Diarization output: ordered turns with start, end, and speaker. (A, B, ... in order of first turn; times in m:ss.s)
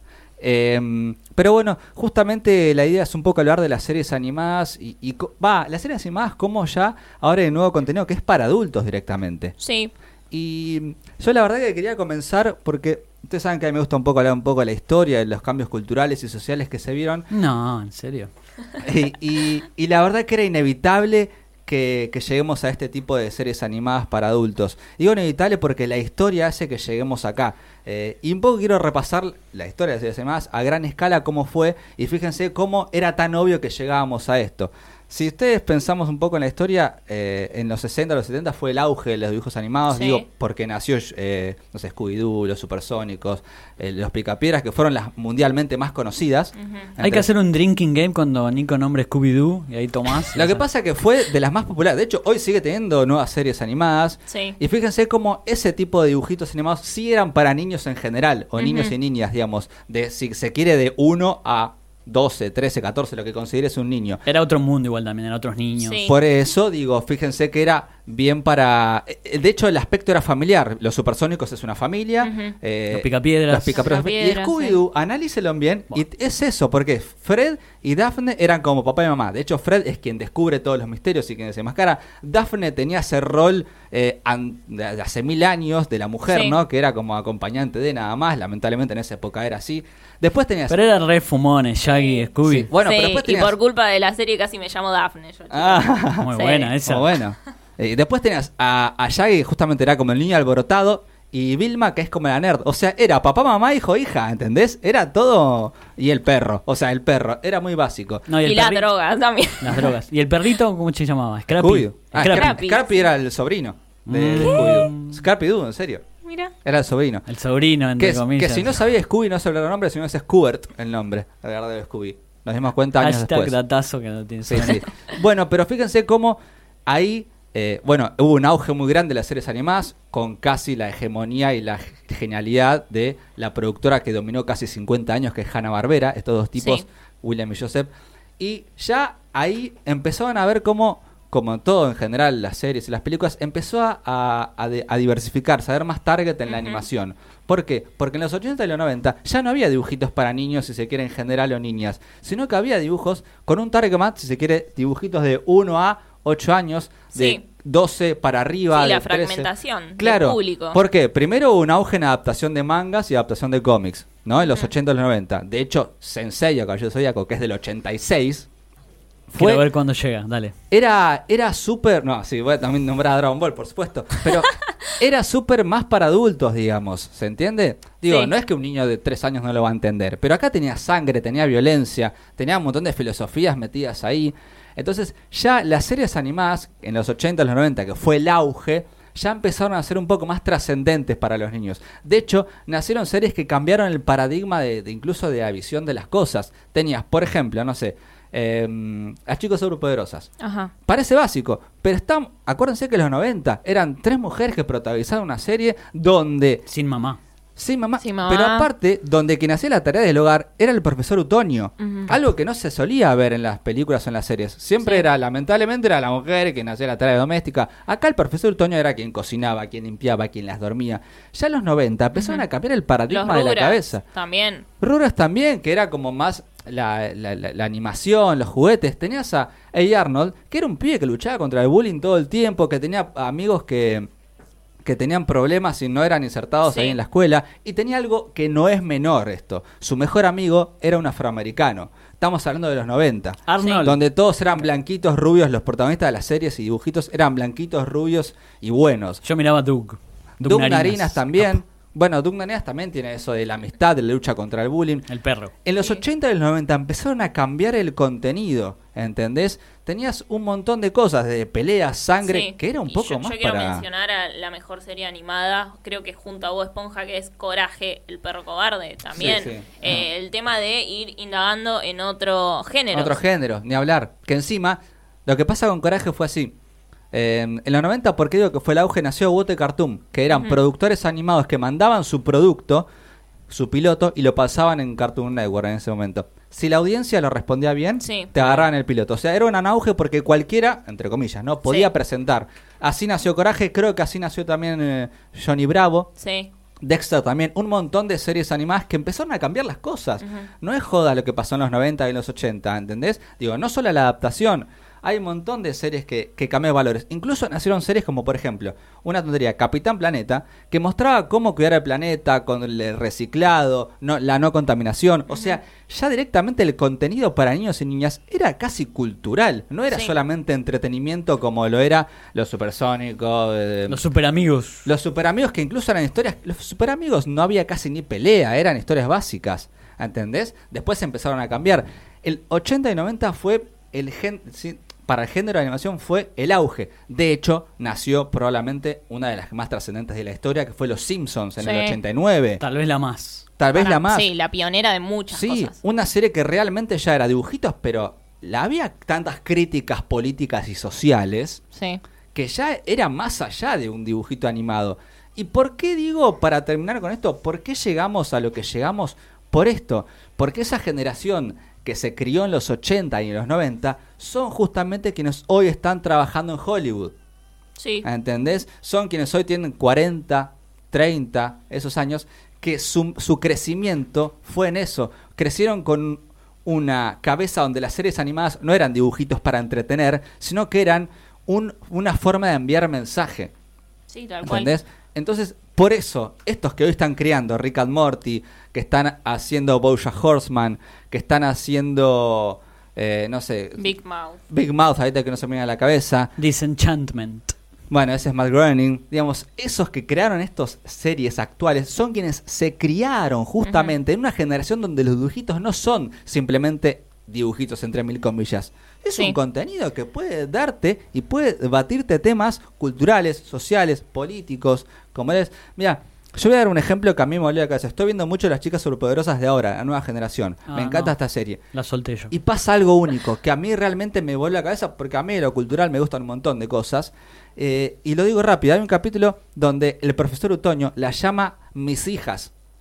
0:00.4-0:09.5 A
0:09.6-0:09.9 B
0:10.3-0:17.3 A
0:17.3-0:18.3 C
0:18.8-0:47.3 A
0:39.9-0:40.2 B
0:46.6-0:46.9 B
0:47.0-0:50.6 C
0:50.3-1:04.2 A
0:54.3-0:54.6 B
0:58.6-0:58.9 B
1:04.2-1:06.0 C
1:05.8-1:06.2 B
1:06.0-1:30.8 A
1:12.2-1:12.6 B
1:12.9-1:13.8 C
1:13.8-1:14.8 B
1:26.3-1:26.6 B
1:30.7-1:32.7 C
1:31.9-1:36.8 B
1:32.5-1:33.5 A
1:35.5-1:36.3 A
1:36.2-1:37.1 C
1:36.8-1:48.3 A
1:48.3-1:48.8 C
1:48.4-1:49.9 B
1:49.6-1:52.6 C
1:51.6-1:56.1 A
1:52.2-1:53.1 B
1:54.1-1:55.2 C
1:54.4-1:54.8 B
1:56.2-1:56.5 B
1:56.6-1:57.2 A
1:57.3-1:58.8 C
1:58.0-2:03.6 A
2:03.0-2:04.8 C
2:04.5-2:48.5 A
2:16.6-2:16.8 B
2:26.5-2:26.8 B
2:37.1-2:37.4 B
2:38.7-2:40.8 B
2:44.4-2:44.7 B
2:49.3-2:49.7 A
2:49.3-2:50.5 C
2:50.7-3:20.3 A
3:20.4-3:20.7 B
3:20.9-3:26.6 A
3:26.7-3:27.2 C
3:27.6-3:44.0 A
3:28.0-3:28.7 B
3:31.8-3:32.2 B
3:42.1-3:42.4 B
3:43.1-3:44.7 B
3:44.8-3:54.1 A
3:54.8-4:09.2 A
3:56.7-3:57.0 B
4:03.5-4:04.0 C
4:03.6-4:03.8 B
4:09.2-4:11.6 C
4:10.4-4:15.1 A
4:15.1-4:15.5 C
4:15.6-4:23.9 A
4:22.2-4:33.2 B
4:29.1-4:30.0 A
4:32.9-4:36.5 A
4:37.1-4:42.9 A
4:40.3-4:40.6 B
4:43.5-4:56.1 A
4:48.0-4:48.3 B
4:56.2-4:56.5 B
4:56.8-5:24.0 A
5:00.2-5:00.5 B
5:15.3-5:15.6 B
5:23.9-5:24.9 C
5:24.9-5:42.6 A
5:41.6-5:42.0 B
5:42.6-5:43.4 C
5:43.6-5:44.3 A
5:43.7-5:45.8 B
5:45.3-5:51.6 A
5:51.7-5:52.0 B
5:52.3-6:07.1 A
6:07.8-6:08.1 B
6:08.0-6:23.5 A
6:24.1-6:24.7 B
6:24.4-6:33.9 A
6:33.8-6:34.4 B
6:34.5-6:36.3 A
6:36.4-6:37.6 C
6:37.9-7:01.6 A
6:43.6-6:43.9 B
7:00.7-7:01.1 C
7:01.7-7:02.3 C
7:02.3-7:12.5 A